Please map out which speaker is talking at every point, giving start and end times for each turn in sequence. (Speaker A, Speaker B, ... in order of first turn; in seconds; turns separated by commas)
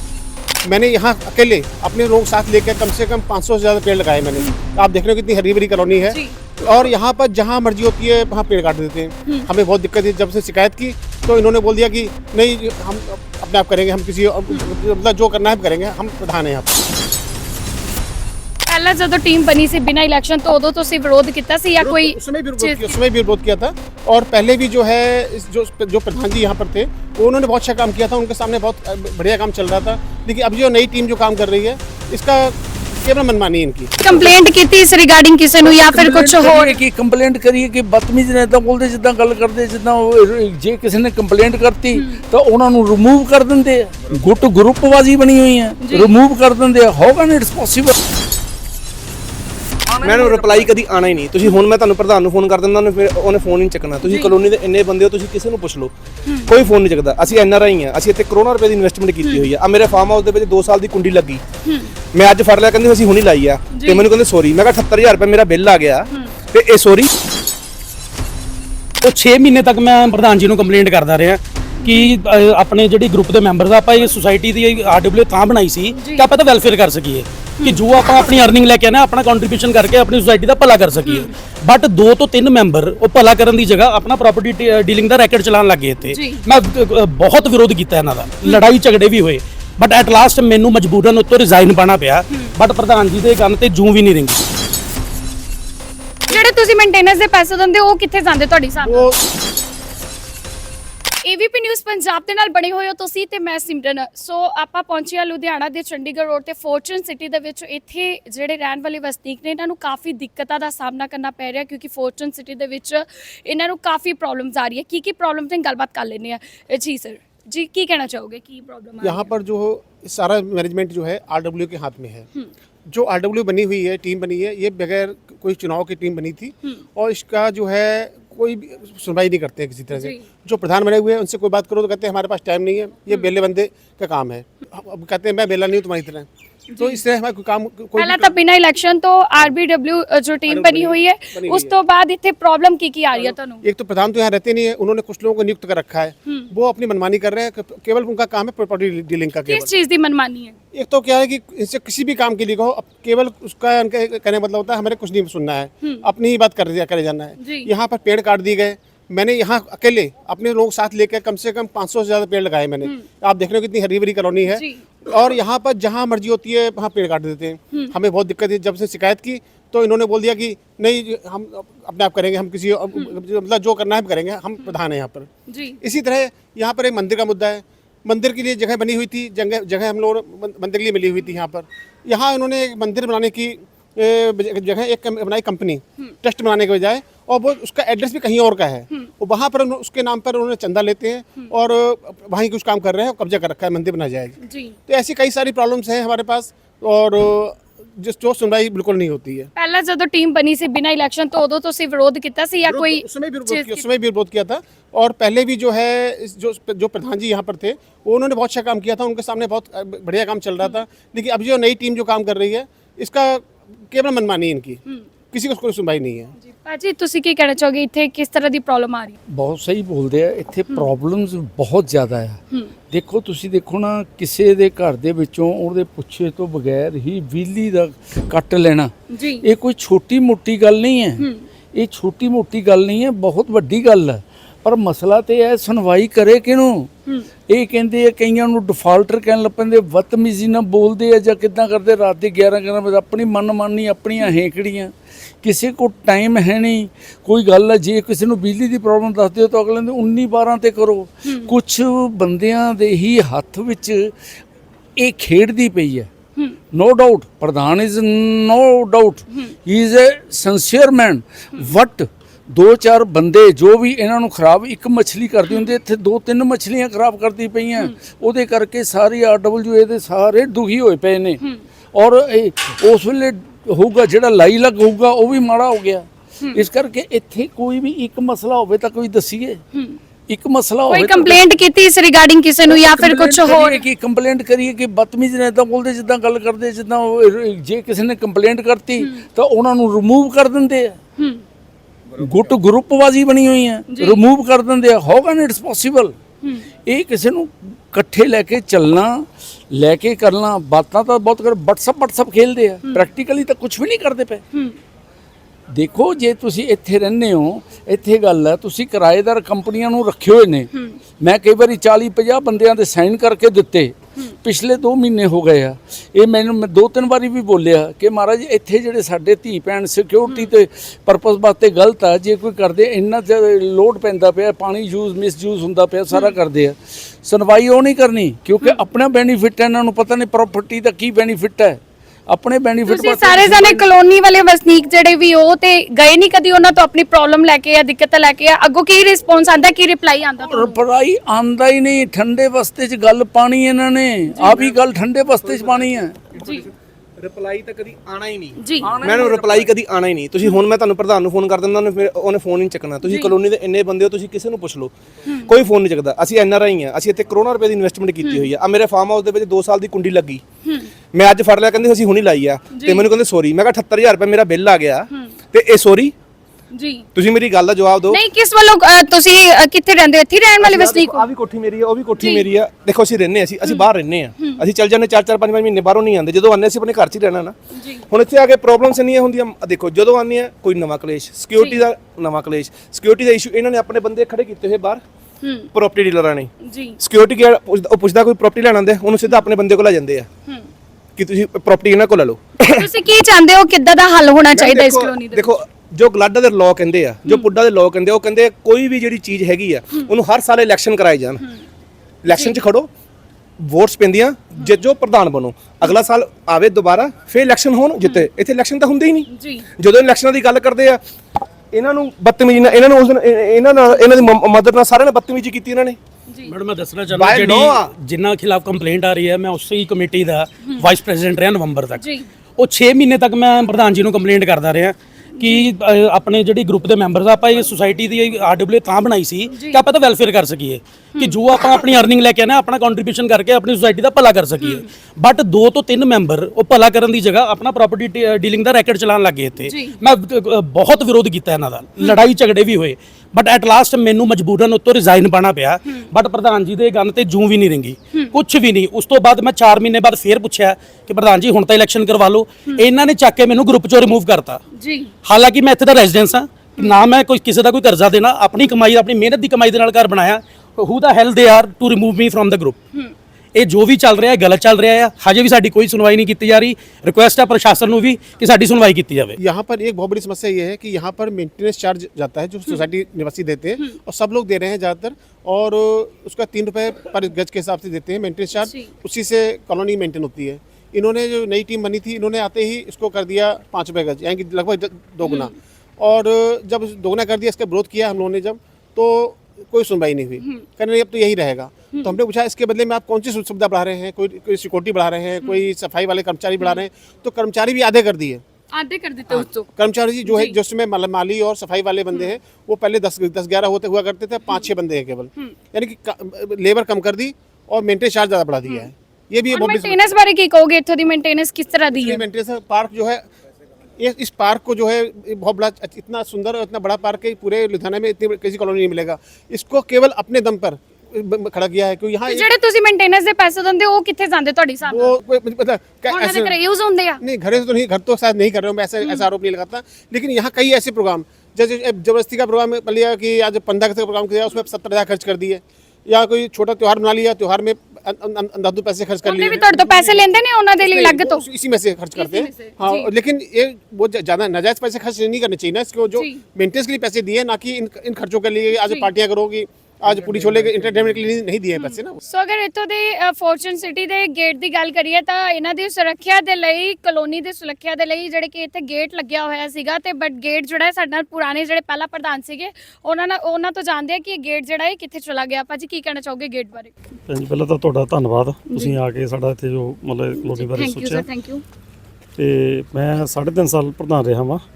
Speaker A: 0.6-16.8, Speaker B: 6.1-6.4, Speaker B: 18.7-23.0, Speaker A: 21.8-34.0, Speaker B: 34.0-36.8, Speaker C: 35.7-47.9, Speaker B: 45.8-46.1, Speaker D: 50.0-55.9, Speaker B: 54.0-54.3, Speaker B: 56.3-56.5, Speaker D: 56.5-61.4, Speaker B: 59.2-59.5, Speaker B: 61.6-61.9, Speaker D: 62.1-67.1, Speaker B: 63.7-64.0, Speaker E: 69.0-94.4, Speaker B: 71.8-72.1, Speaker B: 76.0-76.2, Speaker B: 86.1-86.4, Speaker B: 96.3-99.1, Speaker A: 98.8-99.2, Speaker B: 101.2-119.3, Speaker A: 119.0-122.3, Speaker A: 122.9-136.3, Speaker B: 136.7-137.0, Speaker A: 136.8-138.4, Speaker B: 138.0-143.6, Speaker A: 140.5-141.7, Speaker A: 143.2-149.7, Speaker B: 149.5-150.6, Speaker A: 150.7-175.3, Speaker B: 157.4-157.7, Speaker B: 164.5-164.8, Speaker B: 175.5-175.8, Speaker A: 175.8-194.3, Speaker B: 194.4-194.8, Speaker A: 194.9-199.5, Speaker B: 199.6-203.8, Speaker A: 202.6-214.8, Speaker A: 215.3-216.3, Speaker B: 216.4-219.2, Speaker C: 219.3-222.4, Speaker C: 222.9-236.9, Speaker B: 229.1-229.5, Speaker B: 231.2-231.5, Speaker C: 237.5-254.2, Speaker B: 251.2-251.5, Speaker C: 255.0-256.1, Speaker C: 256.7-271.4, Speaker B: 265.5-265.7, Speaker C: 271.9-279.6, Speaker B: 279.7-280.0, Speaker C: 280.3-281.4, Speaker B: 280.9-283.8, Speaker C: 282.7-291.0, Speaker B: 289.0-289.2, Speaker B: 291.2-291.4, Speaker C: 292.1-296.2, Speaker B: 293.9-294.2, Speaker B: 296.4-296.7, Speaker C: 296.9-304.4, Speaker B: 304.5-304.8, Speaker C: 305.7-333.9, Speaker B: 310.7-311.0, Speaker B: 326.1-326.4, Speaker B: 332.9-340.8, Speaker C: 340.4-346.2, Speaker D: 344.5-344.8, Speaker D: 346.4-360.4, Speaker B: 346.4-346.7, Speaker B: 348.6-348.9, Speaker C: 348.8-349.7, Speaker B: 353.0-353.4, Speaker B: 358.2-358.5, Speaker D: 361.1-366.1, Speaker B: 362.7-363.1, Speaker B: 366.8-367.1, Speaker D: 367.1-368.2, Speaker B: 368.1-371.3, Speaker D: 370.6-377.6, Speaker B: 372.2-372.5, Speaker B: 373.6-374.6, Speaker B: 377.8-378.0, Speaker D: 378.1-385.0, Speaker B: 381.5-381.9, Speaker B: 385.4-385.7, Speaker D: 385.7-386.5, Speaker B: 386.6-387.0, Speaker D: 387.0-390.3, Speaker D: 391.2-392.9, Speaker B: 392.7-395.6, Speaker D: 394.5-401.4, Speaker B: 397.3-397.5, Speaker D: 402.2-402.9, Speaker B: 402.3-402.6, Speaker D: 403.6-411.0, Speaker B: 408.0-408.3, Speaker B: 409.3-409.7, Speaker D: 411.7-416.0, Speaker B: 416.3-416.5, Speaker E: 416.5-422.1, Speaker D: 417.1-417.9, Speaker B: 422.0-422.3, Speaker E: 422.6-454.6, Speaker B: 425.4-425.7, Speaker B: 429.5-429.8, Speaker B: 431.2-431.4, Speaker B: 439.7-440.0, Speaker B: 454.8-455.1, Speaker E: 455.2-462.8, Speaker E: 463.6-469.4, Speaker A: 469.4-498.4, Speaker B: 478.6-478.9, Speaker B: 485.2-485.5, Speaker B: 498.7-499.6, Speaker A: 499.3-510.1, Speaker B: 500.2-500.6, Speaker B: 509.5-512.2, Speaker A: 511.9-513.3, Speaker A: 514.0-522.5, Speaker B: 522.3-525.1, Speaker A: 524.9-526.6, Speaker B: 526.1-527.2, Speaker A: 527.2-552.2, Speaker B: 539.2-541.5, Speaker B: 542.1-543.1, Speaker B: 546.1-546.4, Speaker B: 548.8-549.1, Speaker B: 551.8-566.9, Speaker F: 567.3-571.2, Speaker B: 568.7-569.0, Speaker B: 570.4-571.6, Speaker F: 572.4-574.6